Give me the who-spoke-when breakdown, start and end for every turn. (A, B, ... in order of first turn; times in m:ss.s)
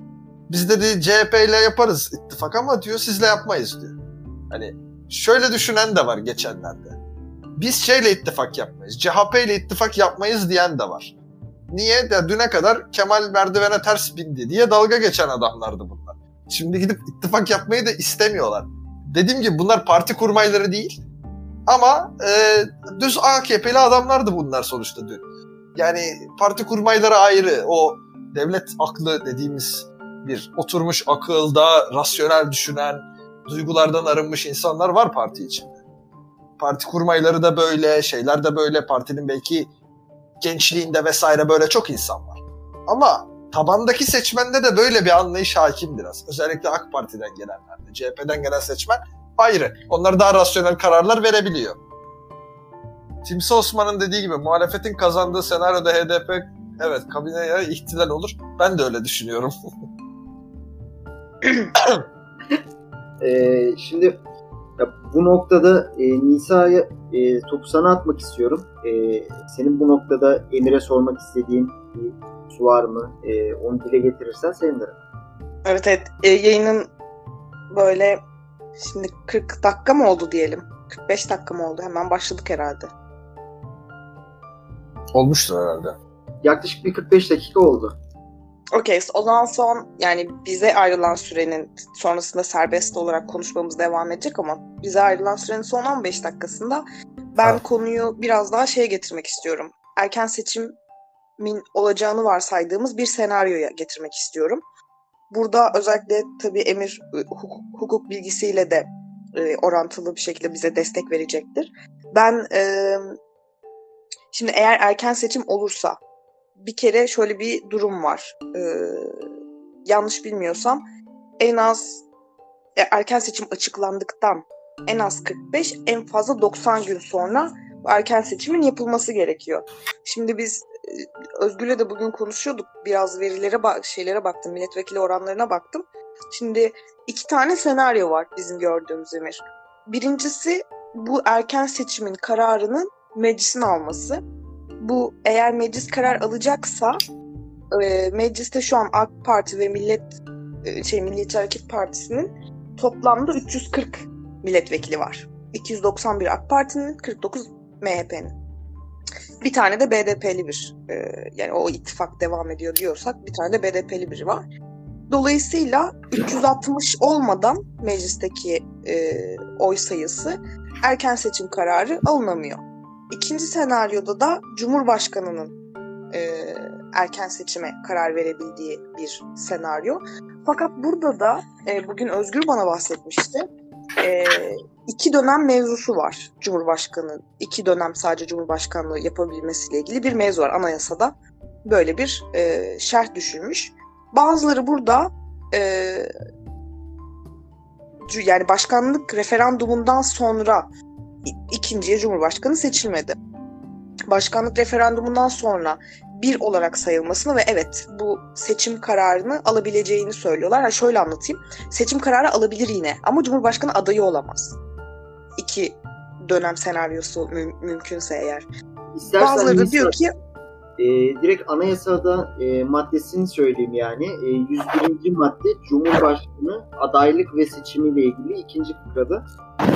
0:00.5-0:04.0 A
0:04.5-0:07.0 A
0:07.6-0:11.1 A
0:11.7-0:21.0 A
0:21.7-0:35.8 A
0:36.6-0:39.7 A
0:40.4-0:51.8 A
0:53.2-0:59.5 A
1:03.2-1:04.2 B
1:04.8-1:15.0 B
1:15.6-1:16.9 C
1:17.7-1:18.2 C
1:18.8-1:22.9 C
1:25.1-1:26.0 A
1:26.4-1:28.0 B
1:28.8-1:40.8 C
1:41.4-1:44.6 C
1:45.3-1:53.0 C
1:54.3-1:56.0 C
1:56.6-1:59.1 C
1:59.8-2:00.8 C
2:01.4-2:02.0 C
2:02.8-2:24.2 C
2:24.8-2:27.0 C
2:27.7-2:38.3 C
2:39.4-2:44.4 C
2:45.1-2:55.6 C
2:56.1-3:03.4 C
3:04.0-3:16.1 C
3:18.1-3:20.7 C
3:21.2-3:23.2 C
3:24.1-3:34.6 C
3:35.4-3:38.5 C
3:38.9-3:40.0 B
3:39.1-3:40.1 C
3:40.8-3:49.2 B